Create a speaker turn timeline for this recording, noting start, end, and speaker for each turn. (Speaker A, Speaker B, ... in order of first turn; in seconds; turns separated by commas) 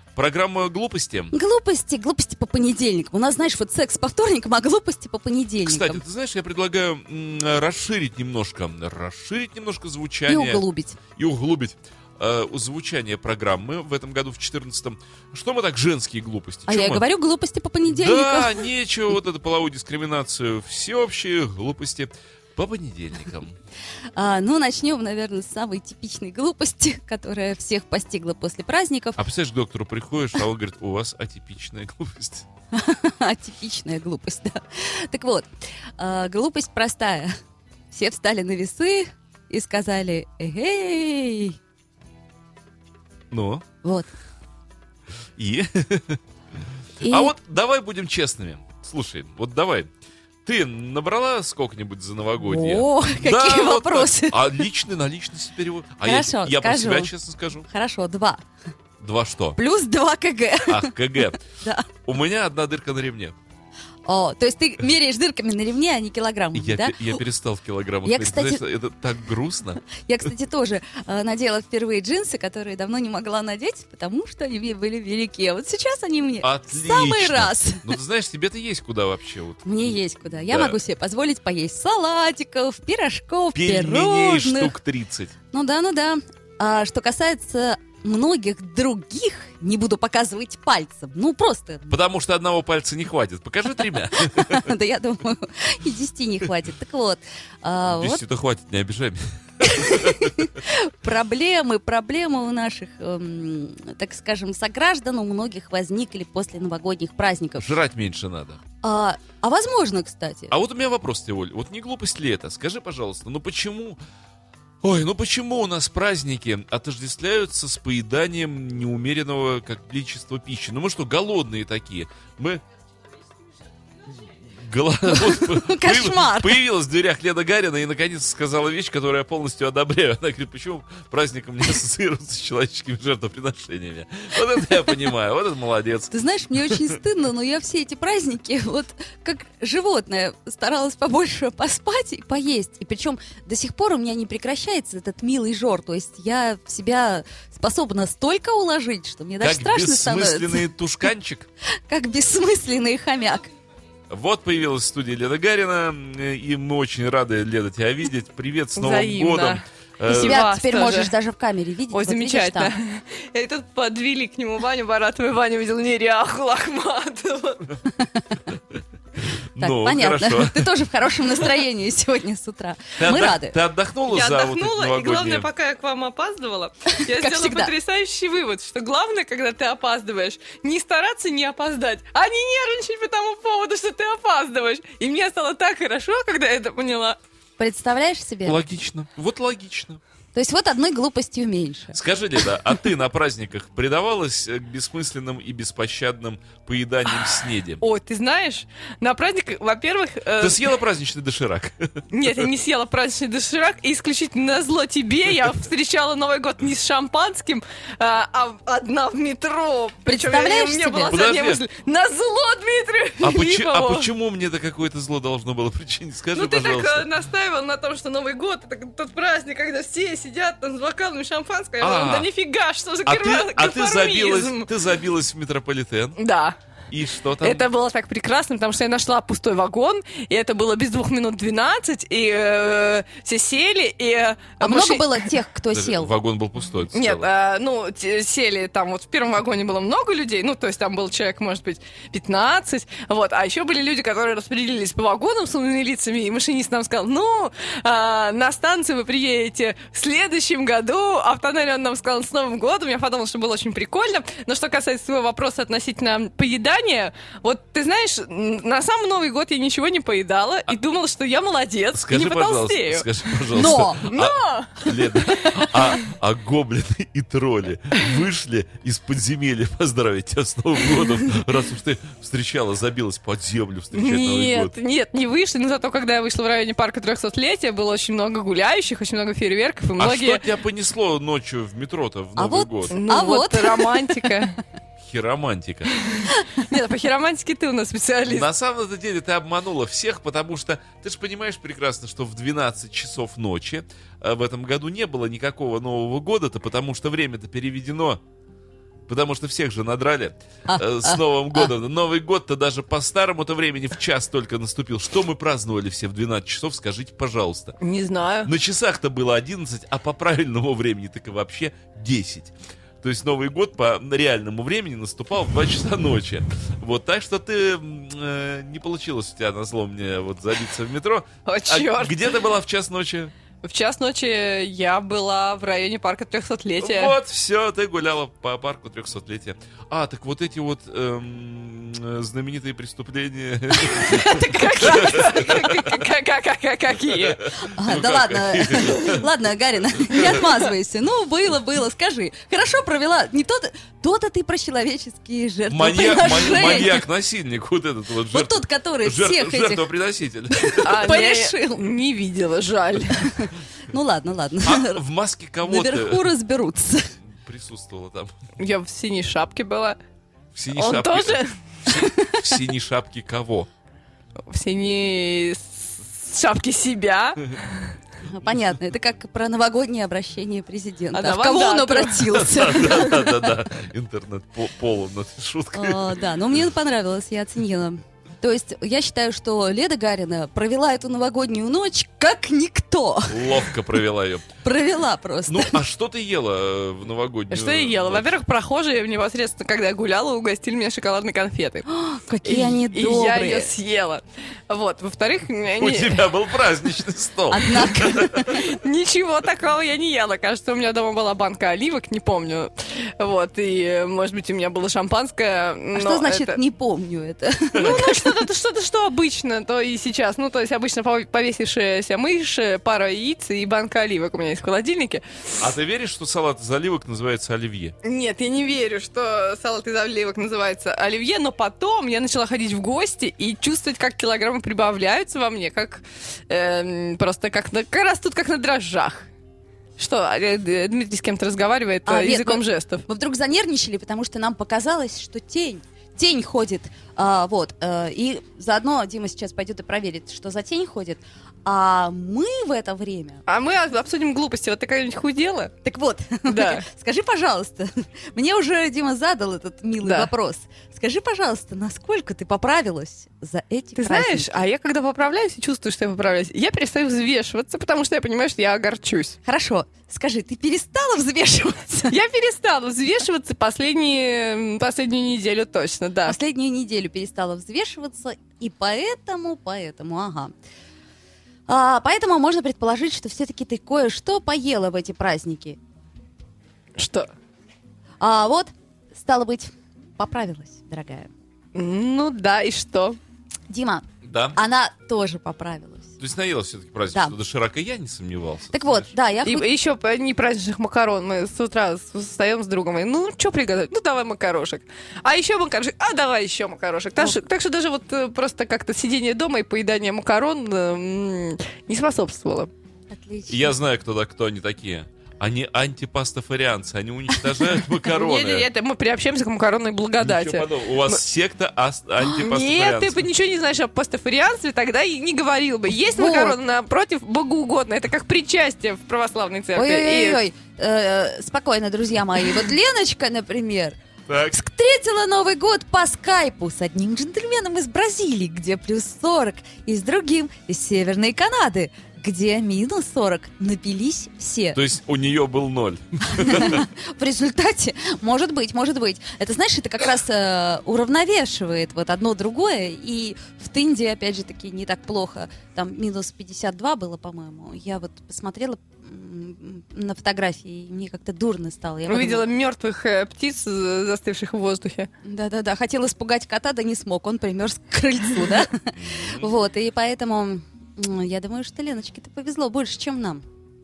Speaker A: 0.1-1.3, Speaker B: 1.3-6.0, Speaker A: 5.7-10.6, Speaker B: 10.3-11.0, Speaker A: 11.2-17.1, Speaker B: 16.7-18.7, Speaker A: 17.9-23.6, Speaker B: 24.1-29.2, Speaker A: 29.2-32.5, Speaker B: 32.7-37.3, Speaker B: 37.9-41.6, Speaker A: 43.3-43.6, Speaker B: 43.8-44.1, Speaker A: 45.4-46.2, Speaker B: 47.0-47.3, Speaker A: 47.1-49.9, Speaker A: 50.5-57.7, Speaker B: 52.4-54.6, Speaker B: 56.0-57.1, Speaker B: 57.7-58.4, Speaker A: 59.0-59.6, Speaker B: 59.6-61.9, Speaker A: 60.7-61.4, Speaker A: 62.0-63.4, Speaker B: 64.1-67.2, Speaker A: 66.5-69.8, Speaker B: 68.0-68.7, Speaker B: 69.9-77.9, Speaker A: 76.4-80.8, Speaker B: 79.7-84.8, Speaker A: 83.5-85.3, Speaker B: 85.5-92.0, Speaker A: 91.9-94.7, Speaker B: 94.2-98.2, Speaker A: 97.9-100.3, Speaker B: 99.6-107.8, Speaker A: 107.6-108.6, Speaker B: 108.8-110.5, Speaker A: 110.5-114.0, Speaker A: 114.8-122.6, Speaker A: 124.4-136.1, Speaker B: 125.1-126.6, Speaker B: 136.1-150.7, Speaker A: 136.7-137.0, Speaker A: 149.4-151.5, Speaker B: 151.9-153.5, Speaker A: 154.1-160.4, Speaker C: 158.8-161.1, Speaker B: 160.1-162.7, Speaker C: 161.9-167.6, Speaker B: 168.0-168.3, Speaker A: 169.2-170.7, Speaker B: 169.6-173.6, Speaker A: 173.0-175.5, Speaker C: 174.1-187.2, Speaker B: 176.9-177.7, Speaker B: 187.6-188.6, Speaker A: 188.4-190.0, Speaker B: 190.3-192.0, Speaker A: 191.9-197.8, Speaker C: 197.8-200.7, Speaker A: 200.4-202.0, Speaker C: 202.1-214.1, Speaker B: 210.1-211.1, Speaker A: 211.1-211.6, Speaker A: 213.2-217.1, Speaker C: 216.3-224.7, Speaker A: 221.8-222.3, Speaker A: 223.1-226.2, Speaker C: 226.2-226.6, Speaker A: 226.9-227.7, Speaker C: 227.4-235.3, Speaker B: 234.6-236.1, Speaker A: 235.7-237.3, Speaker C: 236.9-265.8, Speaker A: 261.9-274.7, Speaker B: 263.5-264.1, Speaker C: 273.9-280.5, Speaker A: 280.0-282.9, Speaker B: 282.4-284.2, Speaker C: 282.9-284.6, Speaker A: 285.0-286.0, Speaker C: 286.1-288.5, Speaker A: 288.3-298.2, Speaker A: 299.1-307.8, Speaker B: 300.7-301.7, Speaker C: 307.8-308.5, Speaker A: 308.4-323.3, Speaker C: 321.5-322.2, Speaker C: 323.6-327.1, Speaker A: 326.8-336.0, Speaker C: 334.0-337.4, Speaker B: 334.2-334.7, Speaker A: 337.1-339.3, Speaker B: 337.7-347.1, Speaker A: 340.1-340.5, Speaker A: 345.7-351.2, Speaker B: 348.3-349.9, Speaker B: 350.6-351.9, Speaker C: 350.8-353.3, Speaker B: 353.2-355.0, Speaker A: 354.6-356.3, Speaker B: 355.6-357.1, Speaker A: 357.3-358.3, Speaker C: 358.6-360.0, Speaker A: 360.5-363.7, Speaker C: 360.7-361.6, Speaker B: 361.9-362.4, Speaker C: 364.5-367.9, Speaker B: 368.3-373.5, Speaker C: 371.1-372.9, Speaker A: 372.3-376.2, Speaker B: 375.7-383.6, Speaker A: 383.3-384.5, Speaker B: 384.6-385.8, Speaker A: 385.5-388.3, Speaker C: 387.5-391.9, Speaker B: 391.9-393.7, Speaker C: 392.4-396.2, Speaker A: 395.8-398.5, Speaker B: 397.5-398.6, Speaker C: 398.5-406.6, Speaker B: 405.9-408.4, Speaker A: 407.8-408.1, Speaker C: 407.8-415.2, Speaker A: 415.6-417.9, Speaker C: 418.0-429.3, Speaker C: 430.0-433.1, Speaker B: 432.1-443.4, Speaker C: 443.5-445.7, Speaker B: 445.8-454.5, Speaker C: 446.5-446.9, Speaker C: 450.0-450.3, Speaker C: 454.0-459.4, Speaker B: 459.4-462.2, Speaker C: 462.1-466.4, Speaker B: 466.2-470.5, Speaker B: 471.7-475.8, Speaker C: 477.0-477.3, Speaker B: 478.2-481.3, Speaker C: 481.8-483.2, Speaker B: 483.7-486.1, Speaker A: 484.2-484.6, Speaker A: 486.2-489.1, Speaker B: 488.7-489.7, Speaker C: 489.5-502.7, Speaker B: 503.1-503.8, Speaker A: 503.5-508.7, Speaker C: 508.1-511.2, Speaker A: 510.2-513.3, Speaker C: 512.2-520.4, Speaker B: 516.1-516.6, Speaker B: 519.8-534.8, Speaker A: 524.3-524.6, Speaker A: 534.8-536.9, Speaker B: 536.3-552.5, Speaker C: 552.1-555.1, Speaker B: 555.2-563.4, Speaker A: 559.0-559.5